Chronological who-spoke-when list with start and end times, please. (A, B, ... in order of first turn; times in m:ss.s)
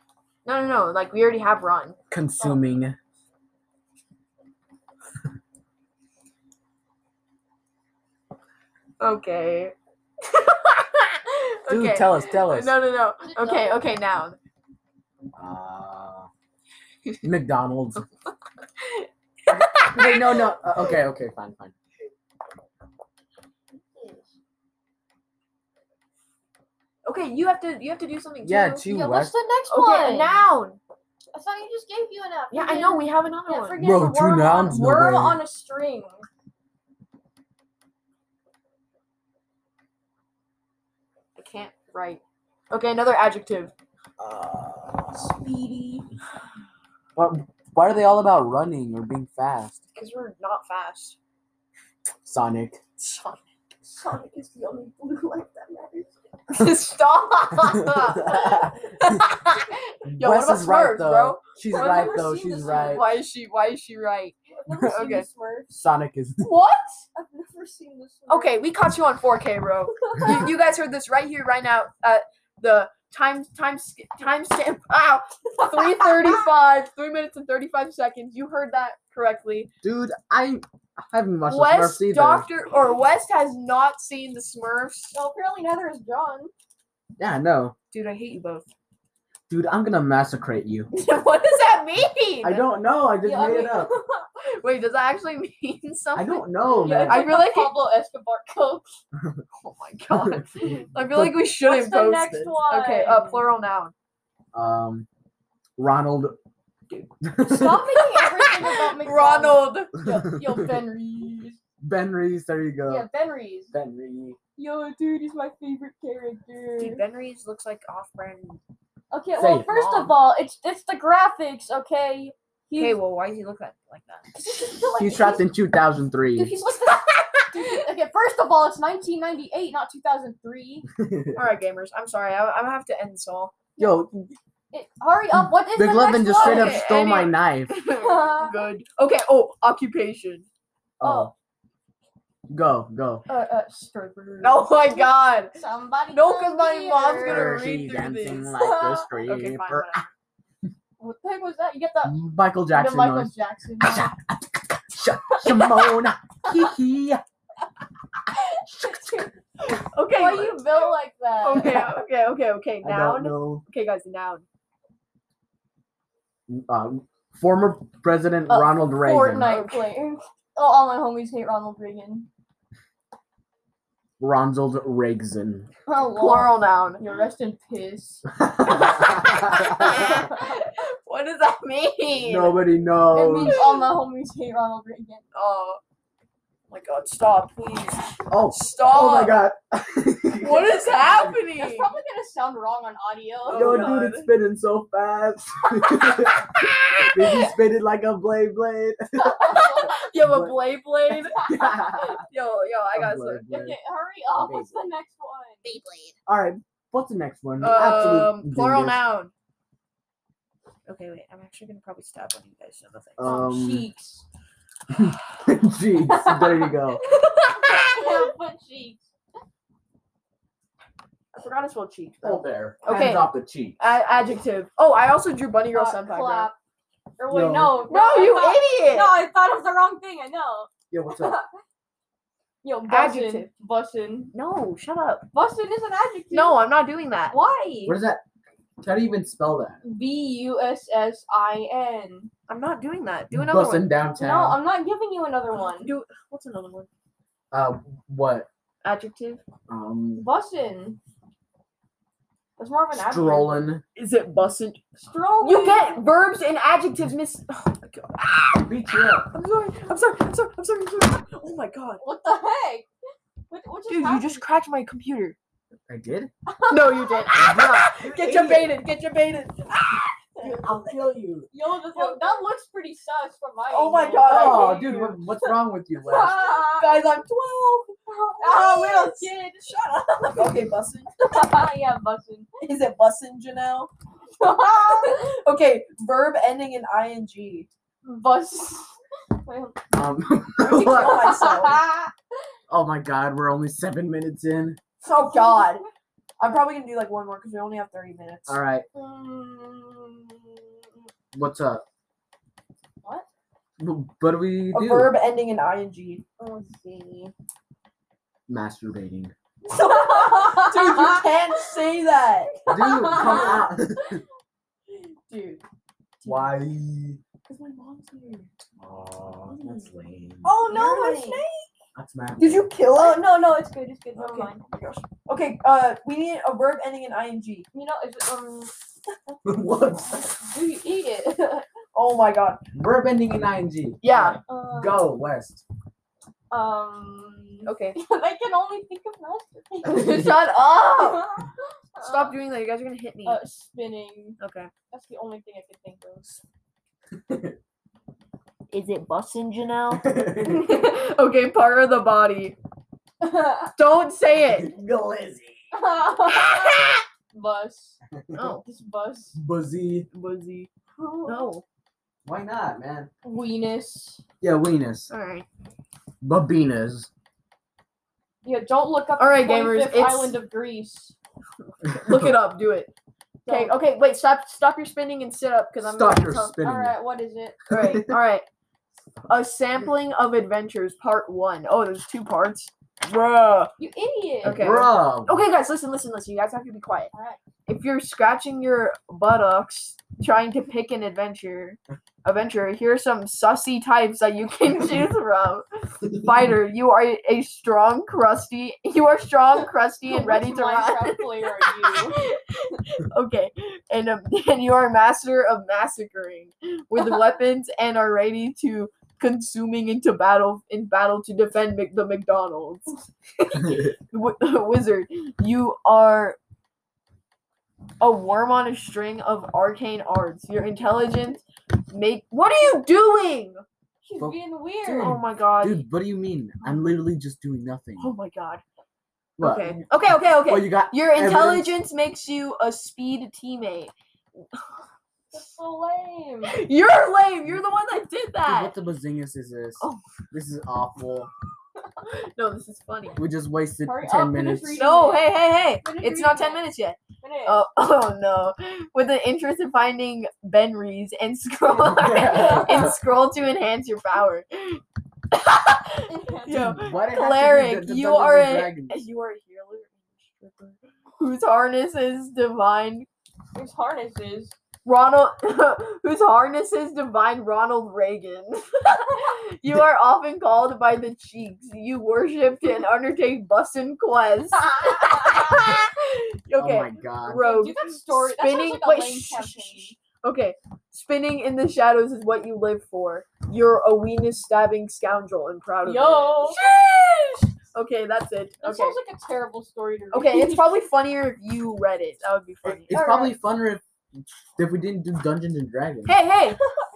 0:00.4-0:02.0 A
0:02.1-0:03.0 B
0:02.4-0:02.7 C
0:09.0-0:14.4 A
0:11.7-0:12.7 B
0:13.2-0:13.9 C
0:15.4-0:16.3 B
0:17.2-0:18.1 B
0:18.8-0:20.5 A
0:19.5-0:21.7 B
0:23.9-0:24.3 C
0:27.1-0:28.9 A
0:28.4-0:29.3 B
0:28.8-0:30.4 C
0:29.7-0:30.8 A
0:31.3-0:36.3 C
0:32.5-0:33.8 A
0:33.8-0:35.4 B
0:41.4-0:43.7 A
0:44.2-0:45.0 B
0:45.5-0:46.0 A
0:47.2-0:49.8 B
0:50.0-0:51.2 A
0:52.2-0:52.8 B
0:53.0-0:53.4 A
0:53.8-0:56.1 C
0:56.5-1:05.3 A
0:57.7-0:59.2 B
1:00.1-1:03.2 B
1:01.6-1:03.1 C
1:04.7-1:05.8 C
1:05.7-1:06.5 B
1:06.4-1:07.1 A
1:07.2-1:08.6 C
1:08.3-1:19.7 A
1:10.1-1:10.5 C
1:15.7-1:16.4 C
1:19.8-1:22.5 B
1:21.5-1:25.2 A
1:25.1-1:26.5 C
1:27.2-1:27.8 B
1:27.9-1:28.7 A
1:29.5-1:30.9 B
1:30.9-1:32.7 A
1:32.4-1:33.9 B
1:33.2-1:34.3 C
1:34.4-1:37.8 A
1:36.2-1:37.3 B
1:36.7-1:39.0 C
1:39.6-1:43.9 A
1:40.2-1:40.4 B
1:41.6-1:43.5 C
1:44.5-1:45.1 B
1:45.8-1:46.4 B
1:47.2-1:47.9 B
1:47.4-1:51.6 C
1:48.2-1:50.0 A
1:50.0-1:50.7 B
1:51.8-1:53.1 B
1:52.9-1:53.7 C
1:53.7-1:54.4 B
1:54.6-1:57.0 C
1:56.8-1:58.6 A
1:59.1-2:03.0 C
1:59.4-2:00.2 B
2:02.8-2:04.4 A
2:04.4-2:05.5 C
2:05.0-2:06.6 B
2:06.4-2:10.8 C
2:11.0-2:11.4 B
2:11.4-2:13.7 A
2:13.8-2:14.1 B
2:14.7-2:16.9 C
2:15.3-2:17.7 B
2:16.3-2:20.5 A
2:17.9-2:18.7 C
2:21.0-2:21.3 B
2:22.5-2:23.2 B
2:23.3-2:27.6 C
2:24.4-2:25.6 A
2:26.1-2:28.6 A
2:27.2-2:29.9 B
2:28.6-2:29.1 C
2:29.2-2:30.1 A
2:31.0-2:32.2 C
2:32.0-2:37.2 B
2:32.7-2:34.1 C
2:35.3-2:36.6 C
2:38.8-2:39.3 C
2:39.6-2:40.8 A
2:40.1-2:42.0 C
2:41.4-2:44.4 A
2:42.8-2:43.6 B
2:46.5-2:49.6 B
2:48.5-2:52.3 C
2:49.4-2:50.0 A
2:54.2-2:55.7 B
2:55.9-2:58.2 C
2:56.2-2:57.0 A
2:58.3-3:00.2 B
2:58.7-3:02.6 A
2:59.9-3:00.2 C
3:02.2-3:03.6 B
3:03.1-3:05.2 C
3:03.4-3:03.9 A
3:05.3-3:05.8 A
3:06.7-3:09.4 A
3:08.3-3:11.3 B
3:10.4-3:11.9 A
3:11.3-3:13.9 C
3:13.5-3:14.3 A
3:13.5-3:16.5 B
3:16.2-3:17.4 A
3:17.1-3:20.6 B
3:19.2-3:23.4 A
3:19.4-3:20.0 C
3:21.3-3:22.2 B
3:22.9-3:23.8 B
3:23.5-3:25.7 C
3:24.4-3:24.8 B
3:25.6-3:26.2 A
3:26.3-3:29.0 B
3:27.6-3:29.3 A
3:30.9-3:33.4 A
3:33.2-3:33.9 B
3:33.2-3:34.2 C
3:34.9-3:37.0 B
3:36.1-3:39.0 C
3:37.0-3:38.3 A
3:41.3-3:46.5 A
3:42.2-3:43.8 B
3:45.7-3:46.6 C
3:47.2-3:51.5 C
3:47.3-3:47.9 B
3:47.9-3:49.2 A
3:50.9-3:51.4 B
3:52.6-3:54.3 C
3:52.9-3:53.5 A
3:54.3-3:55.3 A
3:55.3-3:56.6 C
3:56.3-3:57.4 A
3:57.3-3:58.0 C
3:57.8-3:58.2 B
3:58.8-3:59.8 B
3:59.8-4:02.3 C
4:02.5-4:03.9 A
4:03.3-4:04.6 B
4:04.2-4:05.9 C
4:05.6-4:06.9 A
4:07.5-4:08.5 B
4:08.8-4:09.4 A
4:09.7-4:10.3 B
4:10.2-4:11.0 C
4:12.6-4:13.7 C
4:12.9-4:13.8 B
4:14.0-4:14.8 A
4:15.0-4:16.0 C
4:15.4-4:22.0 A
4:18.6-4:19.3 B
4:22.0-4:22.9 C
4:23.5-4:24.5 C
4:23.9-4:25.4 A
4:25.9-4:26.3 B
4:26.5-4:27.5 C
4:26.7-4:31.0 A
4:27.3-4:28.7 B
4:30.4-4:31.5 B
4:31.5-4:34.8 C
4:31.9-4:32.5 A
4:33.7-4:35.2 A
4:34.2-4:36.6 B
4:36.0-4:37.0 C
4:36.1-4:41.2 A
4:38.1-4:40.4 C
4:41.2-4:42.5 C
4:42.6-4:43.9 A
4:44.4-4:45.3 C
4:44.6-4:47.7 A
4:48.0-4:49.8 C
4:49.9-4:51.4 B
4:50.6-4:51.8 A
4:50.7-4:52.1 C
4:52.7-4:54.8 B
4:55.0-4:55.8 A
4:55.1-4:55.9 C
4:56.4-4:58.6 A
4:58.5-4:58.9 B
4:58.9-5:00.7 C
5:01.3-5:01.8 B
5:03.8-5:05.2 B
5:04.7-5:06.2 A
5:06.4-5:07.3 C
5:08.5-5:09.3 B
5:09.7-5:13.6 A
5:09.7-5:11.2 C
5:12.6-5:13.7 C
5:12.7-5:14.2 B
5:15.3-5:15.6 A
5:16.2-5:16.6 A
5:16.2-5:17.2 B
5:17.5-5:18.5 A
5:18.8-5:20.5 B
5:19.5-5:19.9 C
5:20.4-5:21.4 A
5:20.5-5:21.7 C
5:22.0-5:22.7 B
5:22.4-5:23.3 A
5:22.9-5:24.6 C
5:24.2-5:27.7 A
5:27.7-5:28.8 C
5:29.4-5:30.4 B
5:30.4-5:31.6 C
5:31.9-5:32.6 A
5:32.7-5:35.6 B
5:34.0-5:34.4 A
5:34.5-5:35.1 C
5:36.5-5:42.4 C
5:37.6-5:38.0 A
5:39.8-5:41.3 A
5:39.9-5:40.4 B
5:42.0-5:43.4 A
5:43.2-5:44.4 C
5:44.4-5:44.7 A
5:44.9-5:46.4 C
5:47.1-5:47.6 B
5:48.7-5:52.6 A
5:50.0-5:50.8 B
5:53.2-5:53.7 C
5:53.8-5:54.7 A
5:54.5-5:55.7 B
5:55.7-5:59.4 C
5:56.3-5:57.0 A
5:58.1-5:58.4 B
5:58.4-5:58.6 A
5:59.4-6:00.1 B
6:00.1-6:00.7 A
6:01.0-6:01.5 C
6:01.2-6:01.6 A
6:02.2-6:03.1 B
6:03.2-6:04.2 C
6:04.4-6:05.1 B
6:05.1-6:05.5 A
6:06.2-6:07.1 B
6:08.4-6:11.2 C
6:09.2-6:10.4 A
6:11.8-6:12.9 A
6:12.0-6:12.3 B
6:13.4-6:13.8 C
6:13.5-6:16.6 A
6:15.8-6:17.0 B
6:16.6-6:17.6 C
6:17.7-6:18.5 A
6:17.7-6:18.2 B
6:19.3-6:23.7 A
6:23.8-6:24.9 C
6:24.4-6:25.4 B
6:24.4-6:27.1 A
6:27.1-6:27.4 C
6:27.7-6:56.4 A
6:40.0-6:42.3 C
6:58.0-7:03.6 A
7:04.0-7:05.2 C
7:04.2-7:08.1 B
7:05.0-7:05.9 A
7:08.0-7:08.6 A
7:09.4-7:09.8 B
7:09.4-7:14.6 A
7:10.4-7:11.8 B
7:15.3-7:16.6 C
7:16.5-7:18.7 A
7:18.5-7:21.3 B
7:22.1-7:23.2 A
7:23.2-7:24.9 B
7:23.8-7:26.7 C
7:24.8-7:43.1 A
7:27.2-7:27.6 C
7:31.8-7:33.0 B
7:32.2-7:33.0 C
7:36.1-7:36.9 C
7:36.5-7:39.0 B
7:43.6-7:44.6 C
7:44.8-8:09.0 A
7:54.6-7:55.6 C
7:56.6-7:57.5 B
7:57.3-8:00.0 C
8:05.8-8:06.6 C
8:08.6-8:10.8 C
8:10.1-8:13.0 A
8:12.6-8:16.1 B
8:12.9-8:13.4 C
8:16.1-8:16.6 A